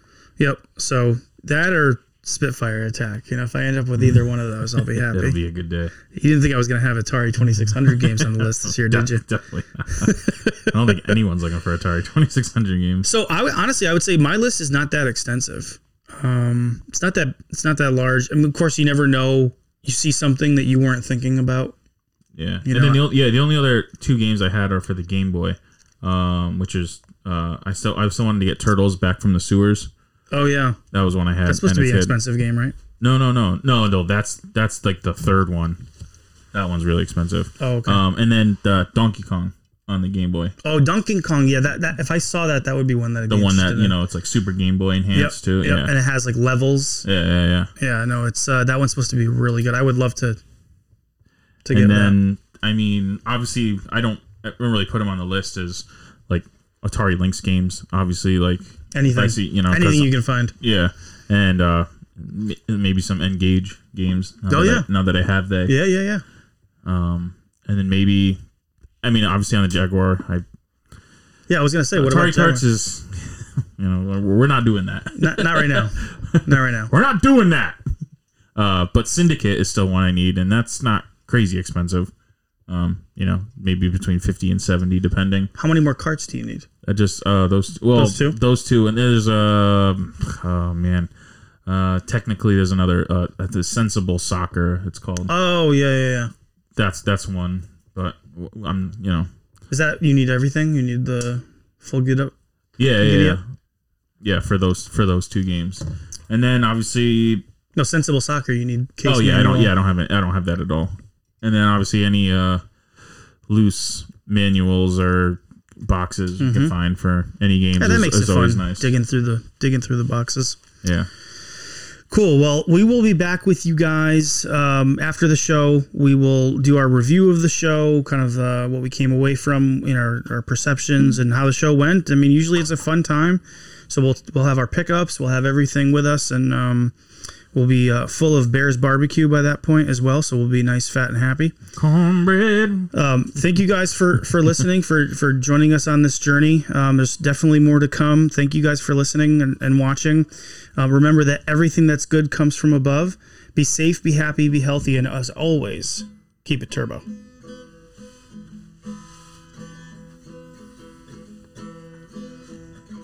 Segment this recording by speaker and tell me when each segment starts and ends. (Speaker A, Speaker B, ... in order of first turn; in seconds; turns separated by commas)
Speaker A: 0.4-5.4, Speaker B: 4.9-5.9, Speaker A: 6.1-9.2, Speaker B: 8.2-13.1, Speaker A: 9.9-10.5, Speaker A: 13.0-21.8, Speaker B: 22.3-29.9, Speaker A: 22.6-23.1, Speaker A: 30.3-30.8, Speaker B: 30.9-32.2, Speaker A: 31.4-32.7, Speaker B: 33.0-35.8, Speaker B: 36.5-40.5, Speaker A: 37.6-38.0, Speaker A: 40.6-43.9, Speaker B: 43.3-45.9, Speaker A: 45.1-47.0, Speaker B: 47.0-47.7, Speaker A: 47.8-50.4, Speaker A: 51.6-52.2, Speaker B: 51.7-65.8, Speaker A: 58.9-60.5, Speaker A: 64.5-64.8, Speaker A: 65.7-66.2, Speaker B: 66.8-68.4, Speaker B: 69.0-70.4, Speaker A: 71.5-72.7, Speaker B: 72.0-77.8, Speaker A: 75.1-76.9, Speaker B: 78.5-82.1, Speaker B: 82.7-85.5, Speaker A: 85.5-86.7, Speaker B: 86.8-91.1, Speaker A: 87.9-88.4, Speaker B: 91.7-95.3, Speaker A: 95.3-96.3, Speaker B: 96.8-99.3, Speaker A: 99.7-102.3, Speaker B: 102.8-103.4, Speaker A: 103.0-103.4, Speaker B: 104.2-107.4, Speaker A: 107.8-109.7, Speaker B: 109.0-112.6, Speaker B: 113.5-118.9, Speaker A: 116.4-116.7, Speaker A: 117.8-120.6, Speaker B: 120.8-121.1, Speaker A: 122.1-136.9, Speaker A: 137.5-141.5, Speaker B: 141.8-142.9, Speaker A: 142.9-157.0